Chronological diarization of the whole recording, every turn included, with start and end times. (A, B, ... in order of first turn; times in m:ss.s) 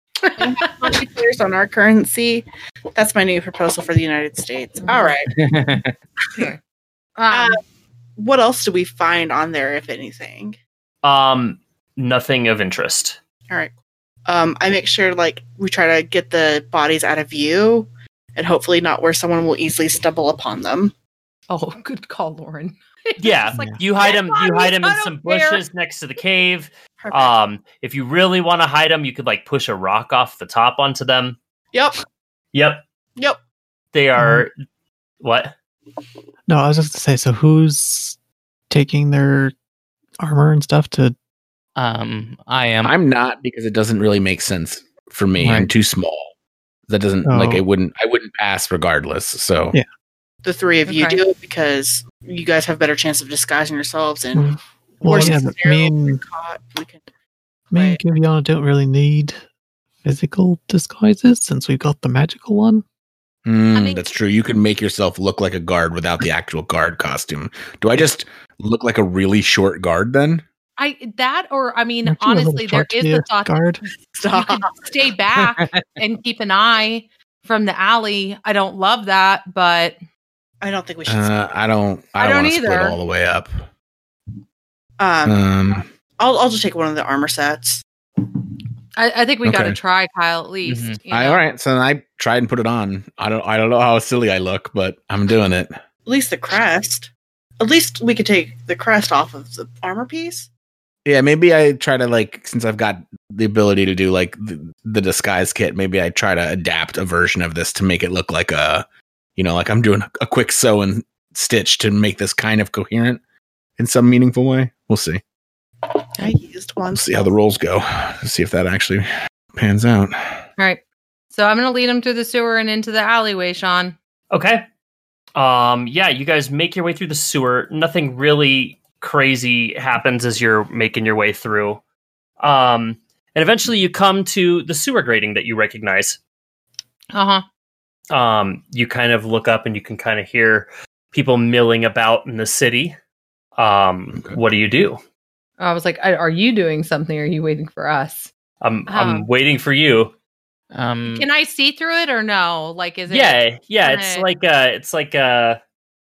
0:00.4-0:05.3 A
0:04.8-0:05.2 B
0:05.3-0:05.9 C
0:07.2-0:07.6 B
0:07.3-0:07.6 A
0:08.2-0:10.6 A
0:11.0-0:13.2 D
0:14.3-0:20.9 A
0:21.5-0:25.6 B
0:23.2-0:31.4 D
0:23.6-0:23.8 E
0:27.0-0:27.3 A
0:32.5-0:32.8 D
0:33.9-0:34.5 D
0:34.2-0:34.5 E
0:35.2-0:35.5 D
0:36.5-0:38.2 E
0:38.7-0:39.5 E
0:40.2-0:41.2 E
0:41.8-0:42.9 C
0:42.8-0:46.3 F
0:45.4-0:45.7 E
0:46.9-0:49.8 F
0:47.3-0:47.6 E
0:50.4-0:54.5 A
0:50.9-0:51.2 B
0:54.4-0:56.2 E
0:55.0-0:57.0 A
0:57.7-0:59.4 E
0:57.7-0:58.0 A
1:00.0-1:02.8 E
1:03.4-1:10.4 F
1:03.7-1:04.1 B
1:10.8-1:13.6 B
1:12.0-1:13.8 E
1:14.1-1:14.8 A
1:14.3-1:20.0 B
1:15.6-1:15.9 C
1:20.6-1:21.4 A
1:21.1-1:23.7 F
1:22.2-1:23.0 B
1:25.0-1:25.4 A
1:25.2-1:25.9 F
1:26.2-1:27.8 A
1:29.0-1:31.4 B
1:29.4-1:29.8 F
1:30.7-1:31.0 C
1:31.1-1:35.8 F
1:36.1-1:40.5 A
1:41.0-1:48.8 F
1:49.4-1:53.2 F
1:53.8-1:55.2 F
1:56.2-1:57.2 A
1:56.9-2:00.4 F
2:01.3-2:04.0 B
2:04.3-2:04.6 D
2:05.4-2:11.8 D
2:12.4-2:16.2 D
2:17.1-2:17.4 B
2:18.1-2:23.0 D
2:23.6-2:25.0 D
2:25.6-2:28.3 B
2:28.6-2:30.1 D
2:28.9-2:29.3 B
2:30.7-2:31.3 C
2:31.1-2:34.3 B
2:33.1-2:35.6 D